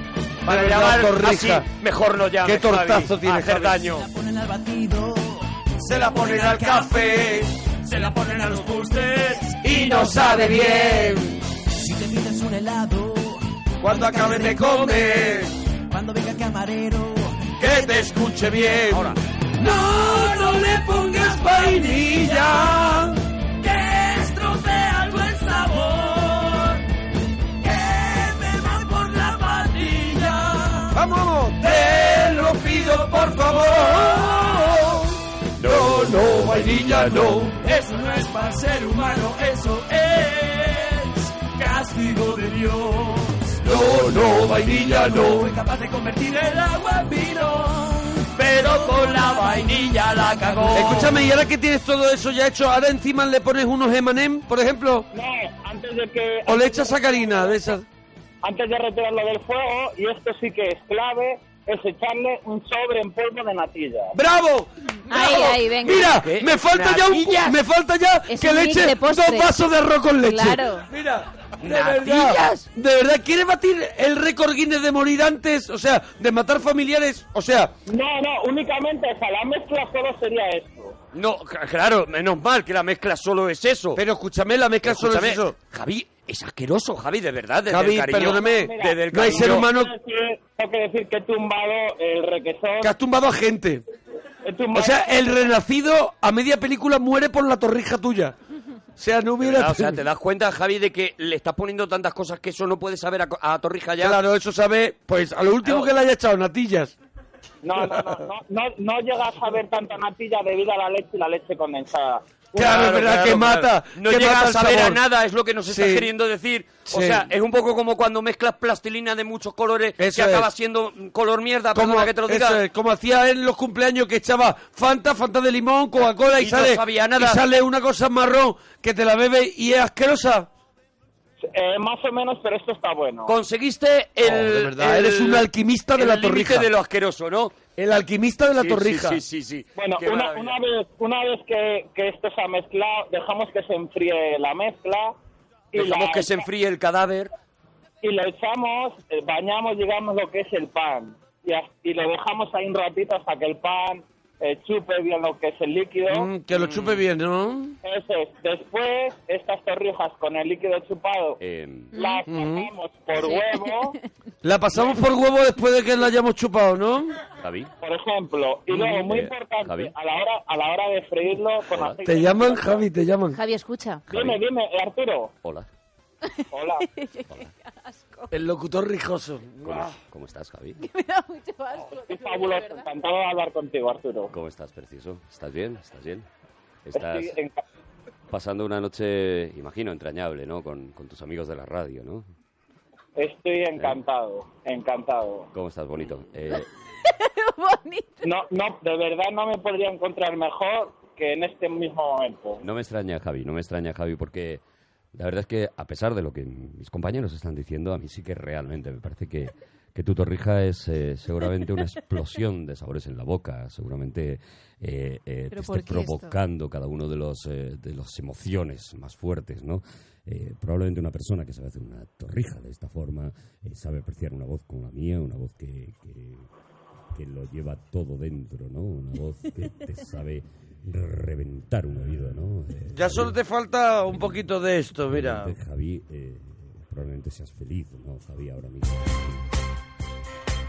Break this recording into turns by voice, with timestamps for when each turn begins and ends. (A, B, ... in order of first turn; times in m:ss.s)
0:00.4-0:04.1 A
0:00.4-0:01.7 B
0:02.4-0:03.8 B
0:03.8-0:11.0 C
0:05.9-0:07.5 B
0:06.0-0:06.9 A
0:08.0-0:09.4 A
0:09.6-0:11.4 B
0:11.7-0:17.7 C
0:13.8-0:15.5 B
0:17.6-0:23.2 B
0:18.9-0:19.2 A
0:20.3-0:22.8 C
0:23.6-0:26.8 C
0:27.6-0:30.9 C
0:30.9-0:35.1 B
0:31.6-0:34.8 C
0:35.6-0:37.5 A
0:35.6-0:37.6 B
0:37.4-0:43.6 C
0:43.6-0:44.9 A
0:43.6-0:45.5 B
0:44.7-0:51.1 C
0:48.3-0:51.1 A
0:50.7-0:55.1 B
0:55.1-0:57.6 D
0:56.5-0:57.8 B
0:58.4-1:04.1 D
1:04.1-1:17.7 B
1:05.1-1:06.2 E
1:06.0-1:07.6 A
1:08.3-1:09.5 E
1:10.2-1:10.9 E
1:11.6-1:12.7 A
1:17.9-1:21.0 D
1:21.1-1:24.0 A
1:24.0-1:25.6 B
1:24.8-1:29.7 A
1:27.7-1:30.0 B
1:28.2-1:32.9 D
1:32.8-1:33.8 B
1:34.4-1:35.0 D
1:34.7-1:38.4 B
1:39.0-1:40.0 B
1:39.4-1:44.2 A
1:44.0-1:47.0 B
1:45.6-1:45.9 A
1:47.6-1:53.3 D
1:52.6-1:55.0 B
1:52.6-2:02.6 A
1:55.7-1:56.1 B
1:56.9-1:57.3 B
2:00.0-2:00.5 B
2:01.7-2:10.5 B
2:06.4-2:07.4 A
2:11.5-2:13.3 D
2:13.3-2:17.6 A
2:14.2-2:16.7 B
2:17.8-2:19.2 B
2:18.6-2:20.6 A
2:19.8-2:25.2 D
2:25.7-2:26.5 D
2:25.7-2:27.3 A
2:28.0-2:36.3 D
2:36.1-2:37.8 B
2:36.5-2:37.0 A
2:37.8-2:41.4 D
2:41.4-2:41.9 A
2:41.9-2:42.3 E
2:42.0-2:44.0 D
2:42.3-2:42.7 B
2:43.1-2:44.0 E
2:44.4-2:47.2 B
2:47.4-2:47.7 A
2:47.8-2:52.8 D
2:48.7-2:49.9 A
2:51.7-2:52.0 A
2:52.0-2:53.4 B
2:53.3-2:54.0 E
2:54.1-2:54.4 A
2:54.1-2:55.3 D
2:56.4-2:58.4 E
2:56.5-2:56.9 D
2:58.3-2:59.9 B
2:59.6-3:00.8 A
3:00.8-3:02.9 E
3:02.0-3:04.3 D
3:04.3-3:06.3 A
3:06.9-3:07.3 A
3:06.9-3:07.6 D
3:08.3-3:12.3 A
3:13.2-3:15.5 D
3:15.5-3:16.7 A
3:17.1-3:18.3 E
3:18.2-3:22.6 D
3:22.6-3:24.6 A
3:25.1-3:46.5 A
3:35.5-3:36.3 E
3:47.2-3:53.4 A
3:52.9-3:55.6 B
3:55.1-3:59.5 A